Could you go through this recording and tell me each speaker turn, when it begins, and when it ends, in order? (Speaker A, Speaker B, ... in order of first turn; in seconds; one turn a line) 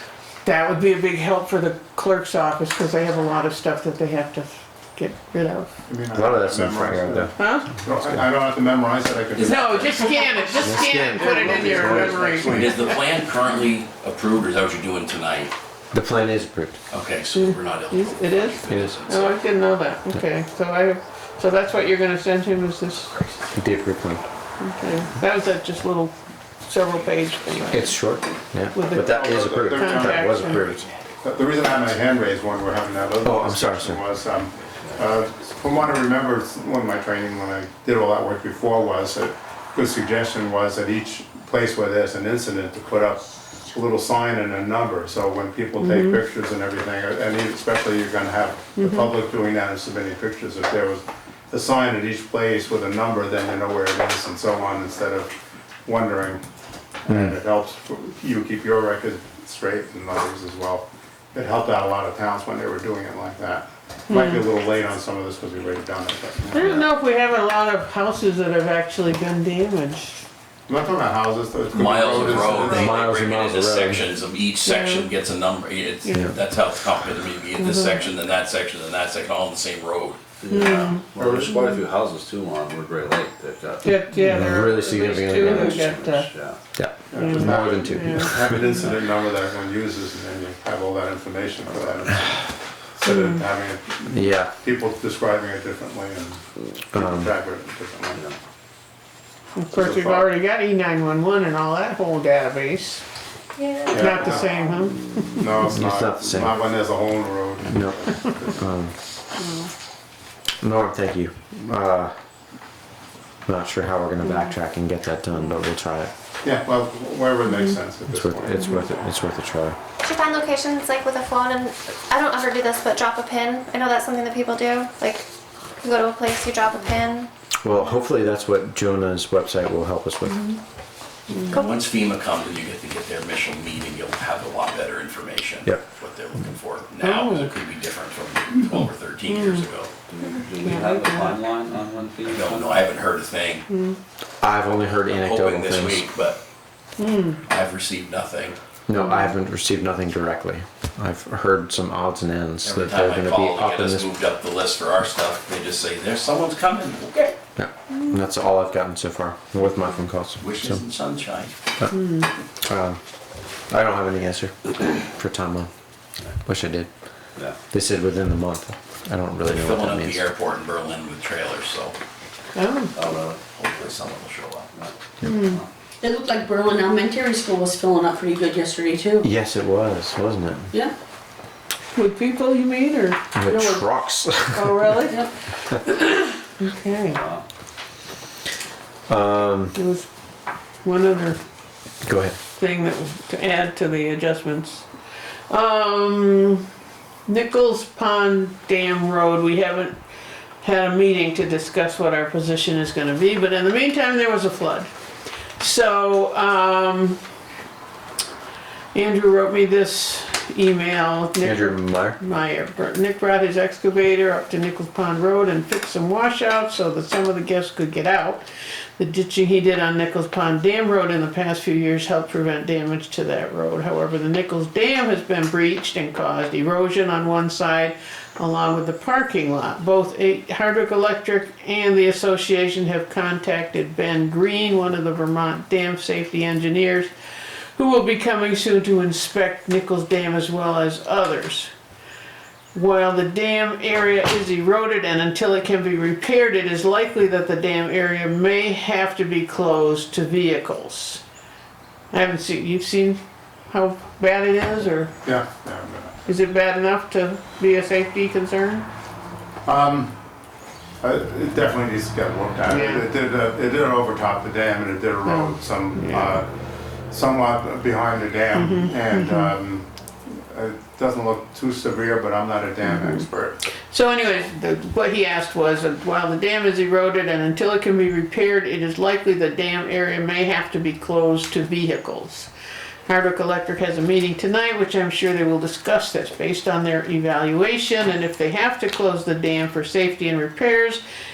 Speaker A: 0.4-5.7
Speaker B: 5.9-10.0
Speaker C: 6.1-7.3
Speaker A: 7.4-7.7
Speaker C: 7.8-8.2
Speaker D: 9.3-10.5
Speaker A: 9.4-12.8
Speaker C: 10.6-12.6
Speaker B: 11.2-12.9
Speaker D: 12.3-15.5
Speaker C: 15.9-16.8
Speaker D: 16.9-19.4
Speaker A: 17.3-23.2
Speaker C: 18.7-19.0
Speaker D: 23.1-23.4
Speaker C: 23.5-24.2
Speaker A: 24.6-26.1
Speaker A: 26.6-28.0
Speaker C: 27.7-30.9
Speaker A: 28.7-30.7
Speaker B: 28.9-30.7
Speaker B: 31.2-55.3
Speaker C: 33.2-34.0
Speaker E: 34.8-35.6
Speaker A: 45.8-46.2
Speaker A: 48.8-49.1
Speaker B: 55.8-56.4
Speaker B: 57.0-66.8
Speaker C: 57.1-57.3
Speaker A: 64.1-64.4
Speaker A: 66.5-70.2
Speaker B: 70.7-73.0
Speaker D: 71.7-80.9
Speaker C: 72.5-74.0
Speaker A: 74.6-75.1
Speaker A: 76.0-76.3
Speaker A: 77.6-78.0
Speaker E: 80.4-86.6
Speaker A: 80.5-81.0
Speaker B: 81.2-81.8
Speaker A: 83.8-86.3
Speaker C: 84.2-85.9
Speaker C: 86.7-88.6
Speaker B: 87.1-96.4
Speaker A: 87.1-88.7
Speaker A: 93.0-93.4
Speaker C: 94.1-94.5
Speaker C: 96.9-97.3
Speaker B: 96.9-98.2
Speaker E: 98.1-98.4
Speaker A: 99.5-103.0
Speaker B: 99.7-100.3
Speaker F: 103.6-104.7
Speaker B: 103.9-104.5
Speaker A: 103.9-105.5
Speaker B: 105.4-108.6
Speaker C: 105.7-106.6
Speaker C: 107.6-108.9
Speaker A: 109.4-109.7
Speaker C: 110.6-112.1
Speaker C: 113.5-116.1
Speaker A: 114.2-114.5
Speaker B: 116.4-119.0
Speaker A: 117.5-117.8
Speaker C: 118.1-119.8
Speaker A: 118.6-118.8
Speaker F: 120.0-125.3
Speaker F: 125.8-127.3
Speaker C: 127.6-130.5
Speaker A: 131.3-131.6
Speaker F: 131.5-131.8
Speaker D: 131.5-139.9
Speaker A: 137.0-137.5
Speaker A: 139.3-139.7
Speaker E: 140.1-142.9
Speaker A: 140.6-141.4
Speaker D: 142.2-143.7
Speaker A: 143.7-144.0
Speaker C: 144.4-146.1
Speaker D: 144.7-146.4
Speaker A: 147.0-147.4
Speaker D: 147.5-148.6
Speaker C: 148.9-154.1
Speaker A: 148.9-149.3
Speaker D: 152.6-157.3
Speaker C: 157.6-160.8
Speaker D: 160.4-161.5
Speaker A: 161.9-162.3
Speaker C: 162.6-163.0
Speaker C: 163.7-165.7
Speaker C: 166.4-166.9
Speaker C: 167.7-170.3
Speaker D: 169.4-172.0
Speaker A: 172.5-172.9
Speaker E: 172.9-173.4
Speaker D: 173.5-174.7
Speaker E: 174.7-175.7
Speaker A: 175.2-175.6
Speaker G: 176.0-179.3
Speaker C: 179.2-180.7
Speaker A: 181.9-183.2
Speaker C: 183.3-184.9
Speaker G: 183.4-183.8
Speaker A: 184.5-187.2
Speaker G: 184.7-185.3
Speaker E: 187.1-187.4
Speaker C: 189.1-189.8
Speaker A: 189.7-190.1
Speaker A: 190.8-191.4
Speaker C: 192.0-192.4
Speaker A: 192.6-194.9
Speaker A: 195.5-196.6
Speaker A: 197.3-200.0
Speaker A: 200.6-204.9
Speaker A: 205.6-207.2
Speaker A: 208.9-218.4
Speaker C: 211.4-212.2
Speaker A: 219.0-237.1
Speaker A: 237.7-241.7
Speaker A: 242.7-251.2
Speaker A: 252.1-255.1
Speaker B: 255.2-256.2
Speaker A: 256.2-258.9
Speaker B: 259.6-260.1
Speaker B: 261.0-266.5
Speaker A: 262.7-263.0
Speaker A: 265.2-266.4
Speaker B: 267.1-273.6
Speaker A: 268.5-269.5
Speaker A: 272.8-282.5
Speaker A: 283.1-291.0